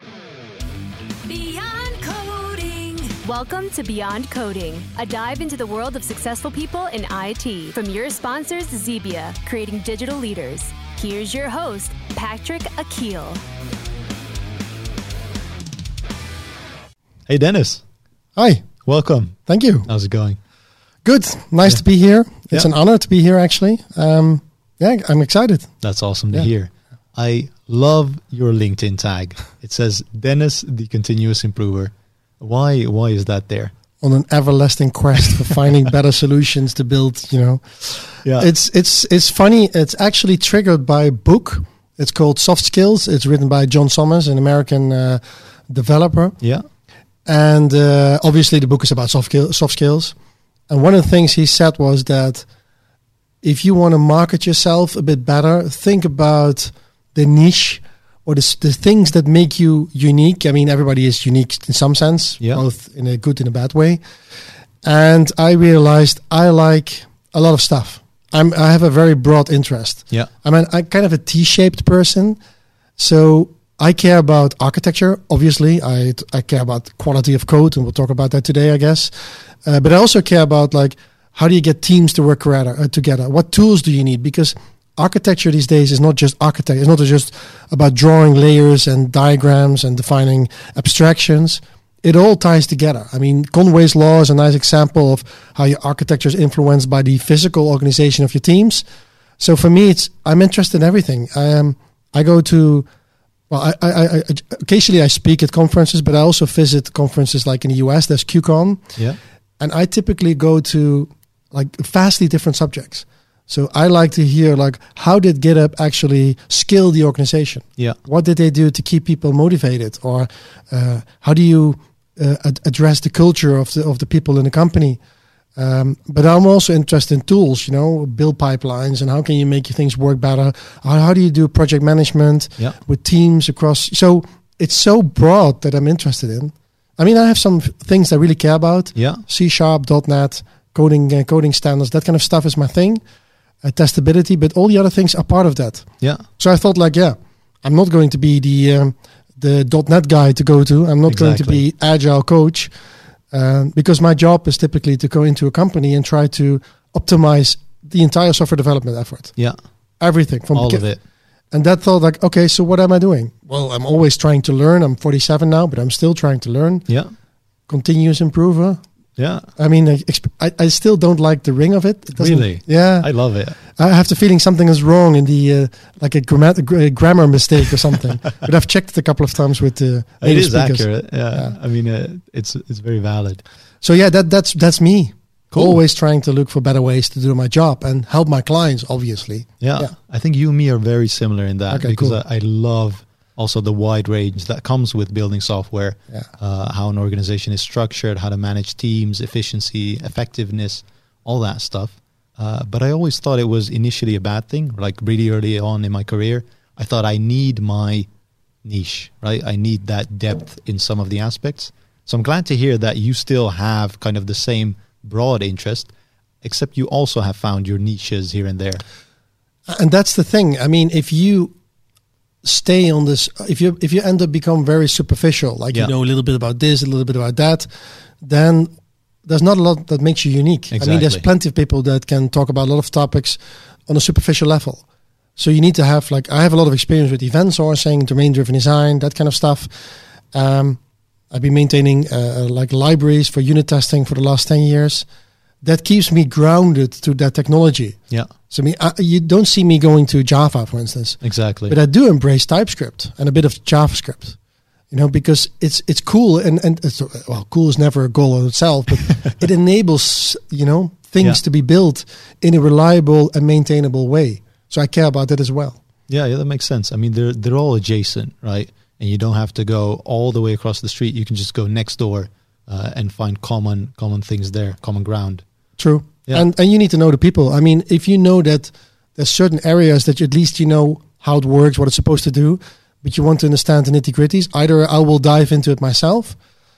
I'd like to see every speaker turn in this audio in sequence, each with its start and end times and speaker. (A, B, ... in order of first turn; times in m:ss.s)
0:01.2-0:13.4 A
0:17.3-0:17.8 B
0:18.4-0:18.7 C
0:18.9-0:20.4 B
0:19.5-0:19.9 C
0:21.0-0:25.7 C
0:25.8-0:33.7 B
0:34.0-0:46.4 C
0:38.2-0:38.5 B
0:47.3-0:50.1 C
0:50.7-0:52.5 C
0:53.4-1:04.0 C
1:04.8-1:12.4 C
1:13.0-1:19.1 C
1:19.6-1:38.8 C
1:39.4-1:42.9 C
1:43.5-1:48.9 C
1:49.6-2:05.0 C
2:05.6-2:23.0 C
2:19.0-2:19.2 B
2:23.6-2:25.9 C
2:26.4-2:32.7 C
2:31.1-2:31.6 B
2:33.3-2:39.3 C
2:40.0-2:40.8 C
2:40.5-2:41.0 B
2:41.5-2:46.9 C
2:47.7-2:48.8 C
2:49.2-2:49.5 B
2:49.6-3:01.5 C
2:52.2-2:53.6 B
3:00.2-3:03.4 B
3:03.8-3:09.9 C
3:05.5-3:05.8 B
3:09.6-3:28.1 B
3:11.7-3:12.2 C
3:28.6-3:35.9 B
3:36.4-3:38.8 B
3:39.7-3:41.5 C
3:42.4-3:47.7 C
3:48.2-3:48.7 C
3:49.3-3:54.8 C
3:50.7-3:51.2 B
3:55.4-3:59.7 C
4:00.3-4:00.8 C
4:01.3-4:05.0 C
4:05.6-4:08.0 C
4:08.5-4:14.4 C
4:11.2-4:11.8 B
4:14.9-4:25.8 C
4:26.1-4:35.4 B
4:35.8-4:46.4 C